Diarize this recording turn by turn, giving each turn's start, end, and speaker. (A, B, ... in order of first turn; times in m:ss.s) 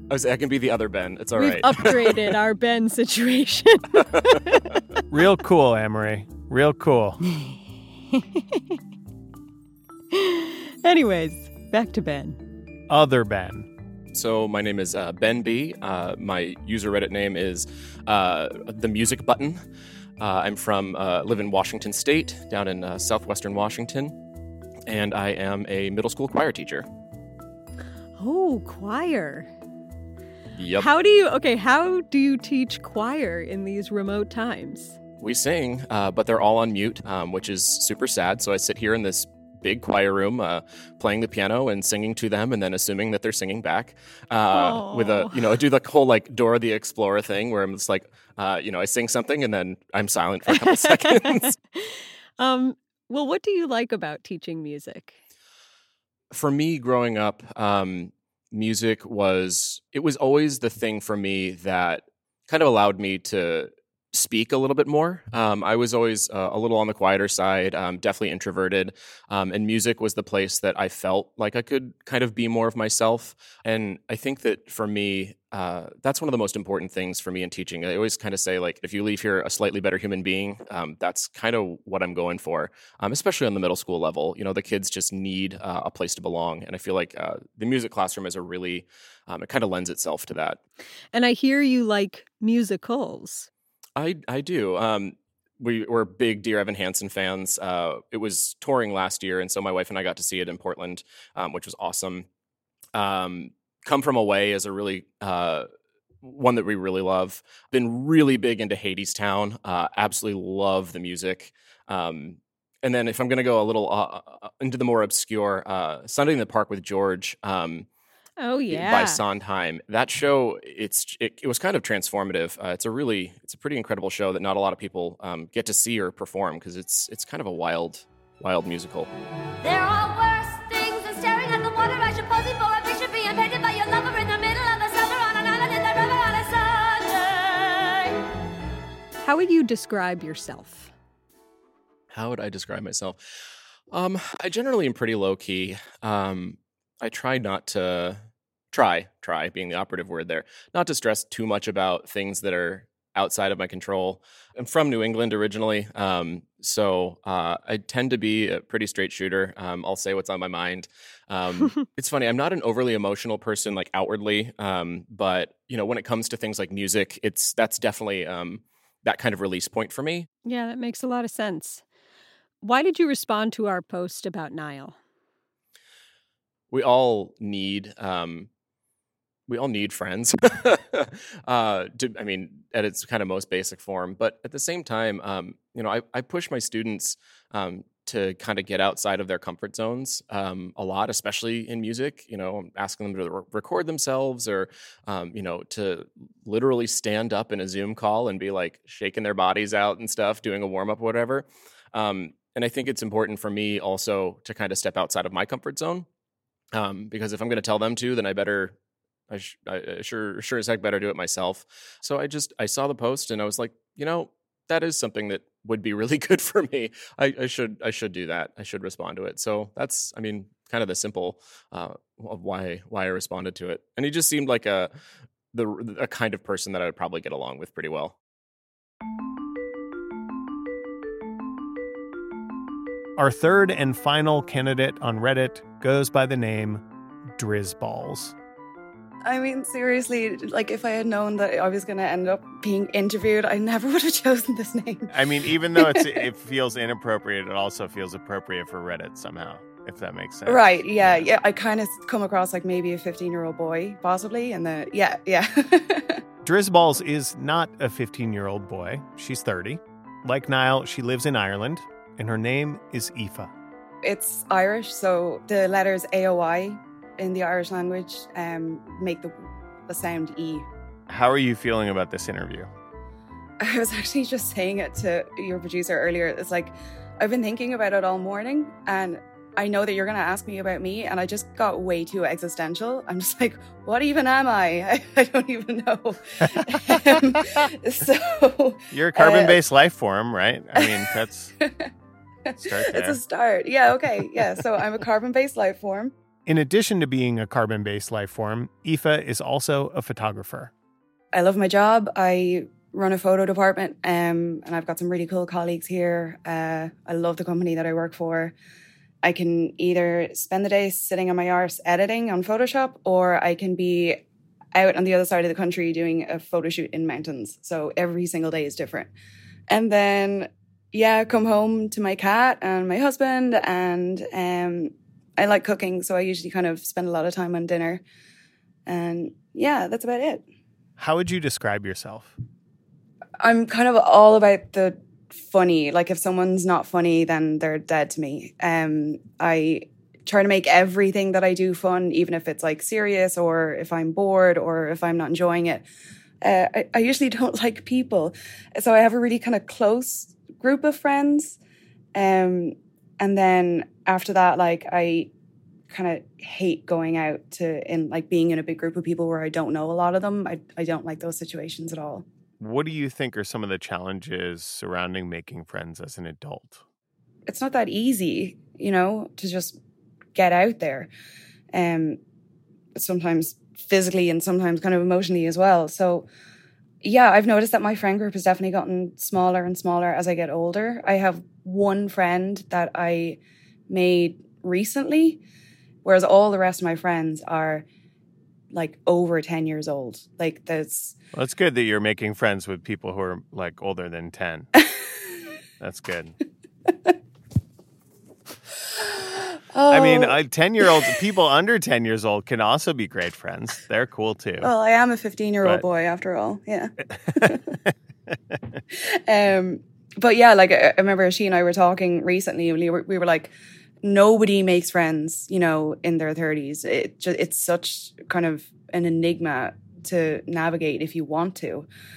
0:00.1-0:02.3 A
0:01.4-0:04.8 B
0:05.1-0:07.2 C
0:07.3-0:07.6 B
0:08.1-0:08.8 B
0:10.1-0:12.4 B
0:12.9-0:13.7 C
0:14.1-0:19.6 A
0:20.2-0:24.1 A
0:24.9-0:26.8 A
0:28.2-0:29.5 B
0:30.6-0:30.9 A
0:30.8-0:35.0 B
0:35.2-0:51.5 A
0:44.5-0:45.4 B
0:50.5-0:55.2 B
0:56.3-1:30.6 A
1:31.1-1:33.5 B
1:34.0-1:42.2 A
1:42.9-1:45.7 A
1:46.2-1:57.8 A
1:58.4-1:59.2 B
1:58.7-2:09.1 A
2:09.6-2:18.2 D
2:19.2-2:20.9 B
2:22.1-2:23.2 A
2:23.9-2:28.2 A
2:28.7-2:50.3 A
2:50.4-2:51.8 B
2:52.6-2:55.0 B
2:56.7-2:58.5 A
2:59.5-3:26.0 A
3:26.7-3:28.7 A
3:29.3-3:44.9 A
3:45.5-3:48.1 A
3:53.2-3:56.8 C
3:57.4-3:58.3 C
3:59.2-4:05.1 E
4:05.1-4:11.3 C
4:05.7-4:06.2 E
4:10.4-4:16.2 E
4:16.4-4:23.5 C
4:24.0-4:29.3 E
4:29.9-4:30.7 E
4:31.1-4:32.7 C
4:33.6-4:49.6 E
4:46.4-4:47.1 C
4:48.9-4:51.5 C
4:50.8-4:51.1 E
4:51.6-4:51.9 E
4:52.4-4:56.1 E
4:52.6-4:53.2 C
4:56.4-5:00.7 C
5:01.3-5:08.5 E
5:09.2-5:14.2 E
5:14.7-5:19.1 E
5:19.7-5:28.0 E
5:28.9-5:30.4 E
5:31.0-5:32.3 C
5:33.4-5:45.8 E
5:46.4-5:51.6 E
5:52.1-5:55.3 E
5:55.9-6:02.2 E
6:02.6-6:06.8 C
6:07.5-6:09.8 E
6:10.3-6:11.1 E
6:11.7-6:12.2 E
6:13.0-6:16.3 E
6:17.0-6:25.4 E
6:26.0-6:27.8 E
6:28.7-6:31.1 E
6:31.3-6:34.7 C
6:35.8-6:36.3 C
6:39.7-6:41.1 E
6:39.9-6:44.7 C
6:44.6-6:47.6 E
6:47.3-6:47.8 C
6:49.3-7:01.9 E